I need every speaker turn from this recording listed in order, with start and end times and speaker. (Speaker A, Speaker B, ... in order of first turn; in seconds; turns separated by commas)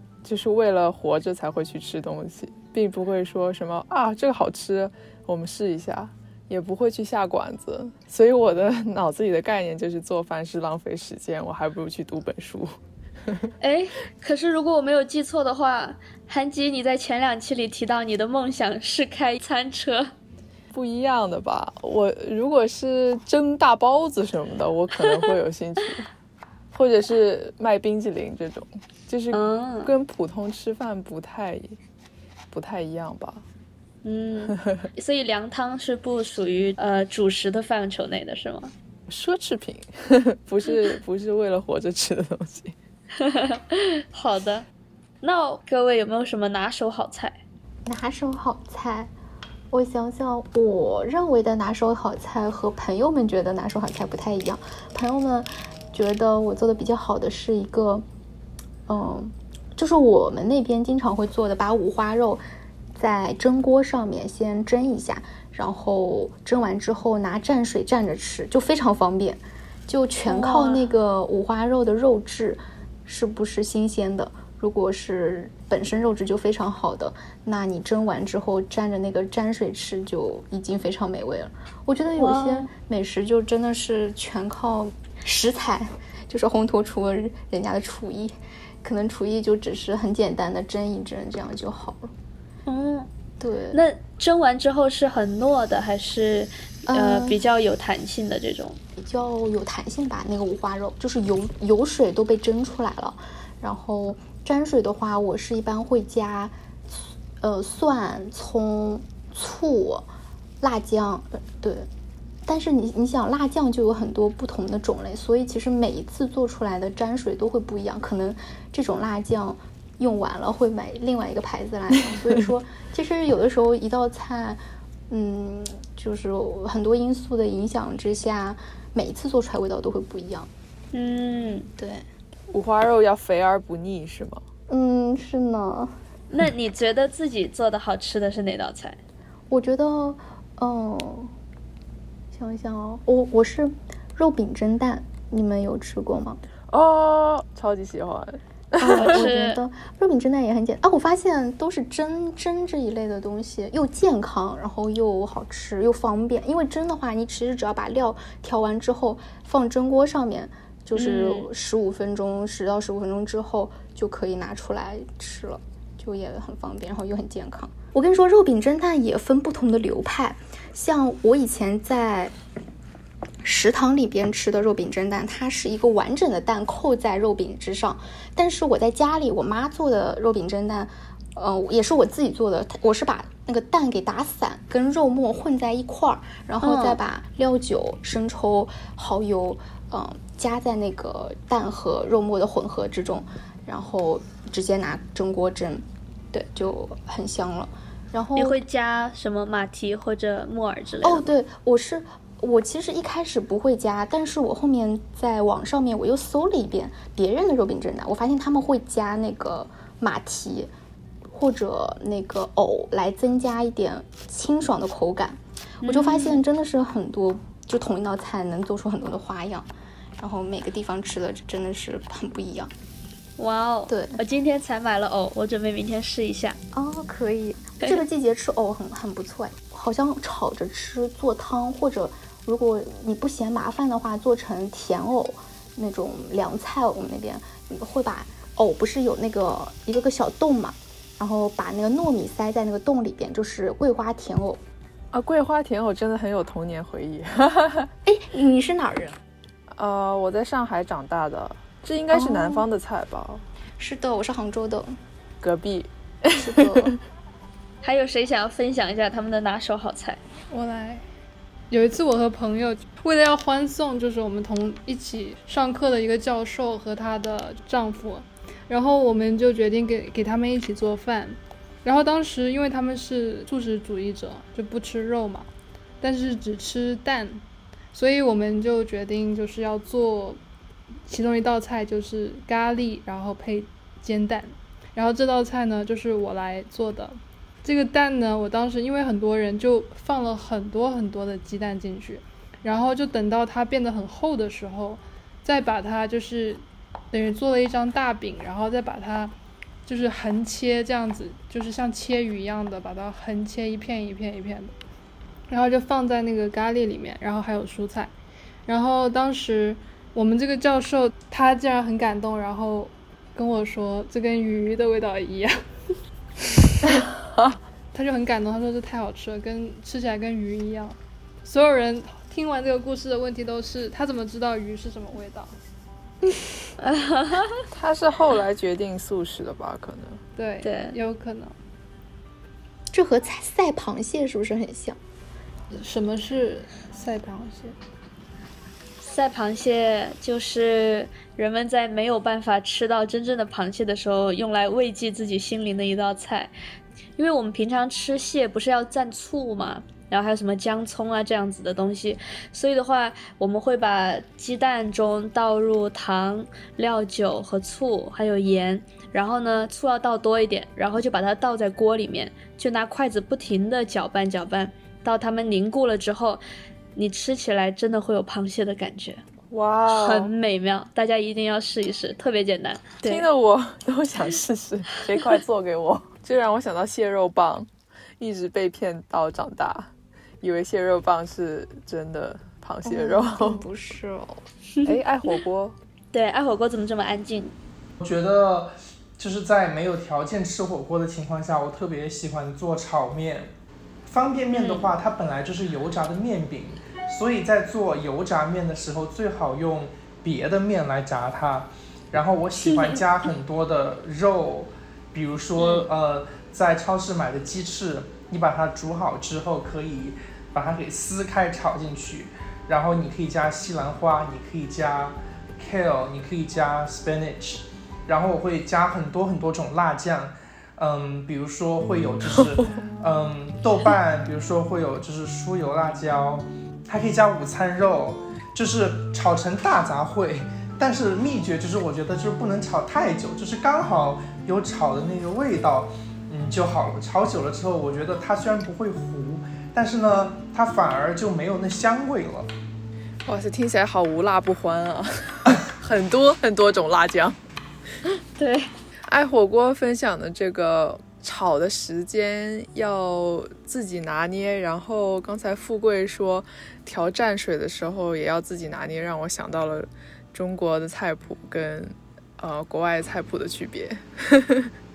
Speaker A: 0.2-12.7, Speaker B: 13.6-20.1, Speaker A: 20.7-26.1, Speaker A: 26.7-31.8, Speaker B: 29.3-29.9, Speaker A: 32.5-33.4, Speaker B: 34.0-38.7, Speaker A: 34.6-34.9, Speaker A: 39.1-42.7, Speaker B: 43.2-44.6, Speaker B: 45.2-47.4, Speaker C: 47.9-49.1, Speaker C: 49.7-58.0, Speaker C: 58.9-62.4, Speaker C: 63.0-92.1, Speaker B: 70.2-70.9, Speaker B: 82.1-82.7, Speaker B: 92.7-93.1, Speaker C: 93.4-93.8, Speaker B: 93.7-98.8, Speaker C: 96.9-97.4, Speaker C: 99.0-110.1, Speaker C: 110.6-111.9, Speaker C: 112.5-130.5, Speaker B: 130.9-131.7, Speaker C: 131.8-132.0, Speaker A: 132.5-134.4, Speaker C: 134.7-135.9, Speaker B: 136.3-139.0, Speaker C: 139.5-141.3, Speaker C: 142.3-146.4, Speaker A: 146.7-149.2, Speaker C: 148.8-172.3, Speaker B: 148.9-149.6, Speaker B: 160.9-161.5, Speaker C: 173.4-198.6, Speaker B: 186.6-187.0, Speaker B: 198.3-201.3, Speaker C: 201.0-210.7, Speaker C: 211.3-222.7, Speaker B: 215.8-216.4, Speaker B: 223.4-226.6, Speaker C: 223.9-224.2, Speaker C: 226.7-244.6, Speaker A: 245.1-247.9, Speaker C: 248.0-249.2, Speaker A: 249.8-253.4, Speaker C: 252.1-252.7, Speaker C: 253.8-255.0, Speaker A: 255.4-256.9, Speaker C: 256.4-256.9, Speaker B: 257.8-260.2, Speaker D: 260.5-261.0, Speaker D: 261.7-275.5, Speaker D: 276.0-277.4, Speaker D: 277.9-280.4, Speaker D: 281.1-299.3, Speaker D: 299.9-304.7, Speaker D: 305.5-308.1, Speaker D: 308.7-315.6, Speaker D: 316.5-317.0, Speaker D: 317.9-325.6, Speaker B: 326.8-327.6, Speaker A: 327.7-330.2, Speaker D: 330.4-331.5, Speaker B: 330.6-330.9, Speaker C: 332.9-335.0, Speaker D: 335.7-337.8, Speaker B: 339.0-346.5, Speaker B: 347.2-366.4, Speaker B: 366.9-369.2, Speaker A: 369.5-370.3, Speaker B: 369.9-373.3, Speaker A: 373.0-377.7, Speaker A: 378.2-379.9, Speaker A: 380.4-383.6, Speaker C: 382.8-384.4, Speaker A: 384.8-385.8, Speaker B: 386.1-387.5, Speaker E: 388.0-393.5, Speaker E: 394.1-442.5, Speaker B: 394.5-394.9, Speaker B: 402.6-403.0, Speaker B: 405.6-405.9, Speaker A: 422.3-422.7, Speaker A: 443.2-447.4, Speaker B: 448.4-448.7, Speaker A: 449.1-464.7